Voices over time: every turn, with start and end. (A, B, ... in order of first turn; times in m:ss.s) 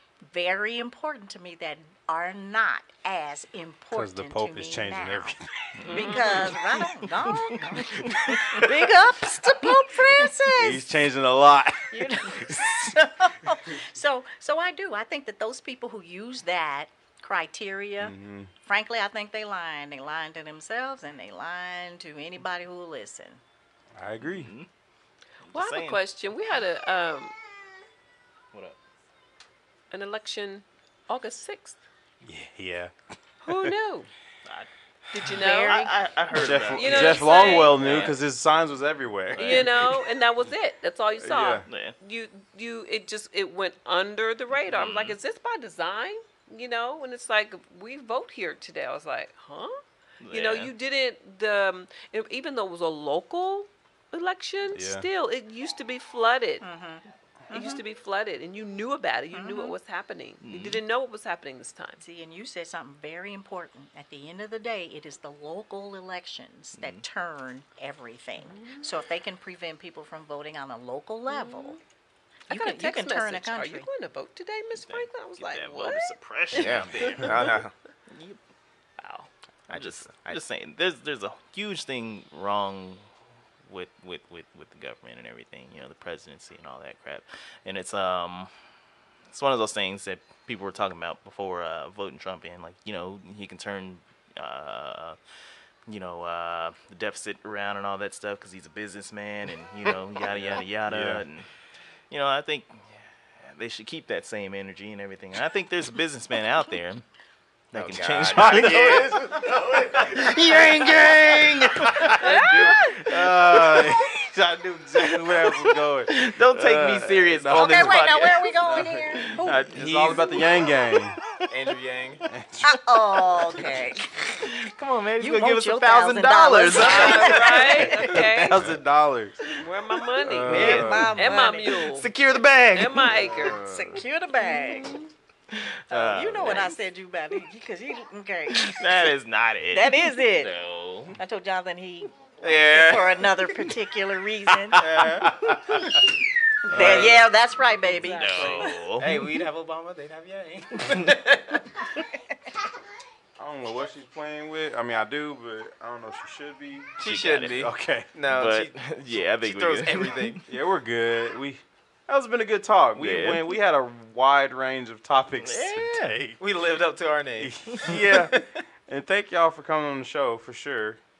0:00.3-0:10.9 A
0:03.9-0:05.5 B
0:05.8-0:06.5 C
0:05.9-0:06.6 D
0:07.4-0:08.6 C
0:08.0-0:08.8 B
0:10.5-0:13.0 B
0:11.9-0:23.4 A
0:18.0-0:18.5 B
0:24.0-0:24.5 B
0:24.2-0:24.7 C
0:25.4-0:26.0 C
0:25.5-0:27.4 D
0:29.9-0:31.8 D
0:32.2-0:32.9 B
0:33.4-0:34.1 D
0:33.5-0:33.7 B
0:35.2-0:35.9 D
0:35.2-0:36.0 A
0:35.3-0:38.2 C
0:36.4-0:39.9 B
0:36.7-0:38.0 D
0:39.3-0:40.0 C
0:39.4-0:49.8 D
0:41.2-0:41.7 B
0:41.7-0:42.0 C
0:44.7-0:45.2 C
0:50.2-0:50.7 C
0:50.3-0:56.6 D
0:54.7-0:55.1 B
0:56.6-0:57.8 A
0:57.5-1:02.0 D
0:59.3-0:59.7 A
1:00.4-1:00.8 C
1:02.0-1:11.8 A
1:06.8-1:07.0 C
1:08.4-1:09.0 D
1:11.3-1:11.8 D
1:12.5-1:13.9 A
1:12.5-1:17.3 D
1:14.8-1:17.5 C
1:16.5-1:17.7 E
1:18.1-1:18.4 C
1:19.0-1:19.3 D
1:19.7-1:20.4 E
1:19.7-1:23.1 C
1:23.6-1:28.5 C
1:29.3-1:35.2 C
1:35.9-1:41.5 C
1:40.3-1:41.2 B
1:42.1-1:47.0 C
1:47.7-1:54.0 C
1:47.8-1:49.2 E
1:48.3-1:58.0 B
1:52.2-1:53.0 D
1:56.1-1:59.7 C
1:57.5-1:59.7 A
1:58.7-2:01.2 B
1:59.7-2:00.5 E
2:01.5-2:02.3 E
2:02.3-2:02.8 B
2:02.6-2:04.3 A
2:04.3-2:08.2 C
2:05.2-2:08.2 A
2:06.7-2:08.6 D
2:08.0-2:09.5 B
2:09.6-2:12.2 D
2:10.2-2:11.2 B
2:10.5-2:11.8 A
2:10.5-2:11.1 C
2:10.6-2:10.9 E
2:12.0-2:13.2 C
2:12.7-2:13.7 D
2:13.1-2:14.0 B
2:13.5-2:15.0 A
2:14.4-2:15.1 D
2:15.5-2:16.7 C
2:15.9-2:19.1 A
2:16.4-2:16.7 D
2:18.5-2:21.2 C
2:19.7-2:20.5 A
2:21.2-2:24.8 A
2:22.5-2:22.9 E
2:24.8-2:25.4 E
2:25.4-2:25.8 B
2:26.7-2:28.6 A
2:26.7-2:27.2 B
2:26.7-2:27.2 C
2:26.8-2:28.9 D
2:28.0-2:29.2 C
2:29.0-2:31.8 E
2:33.4-2:37.0 B
2:37.0-2:40.4 E
2:37.0-2:37.7 C
2:37.6-2:38.1 B
2:38.3-2:40.4 C
2:40.5-2:46.4 B
2:43.0-2:43.4 C
2:45.4-2:46.2 C
2:46.4-2:48.1 E
2:47.4-2:51.0 B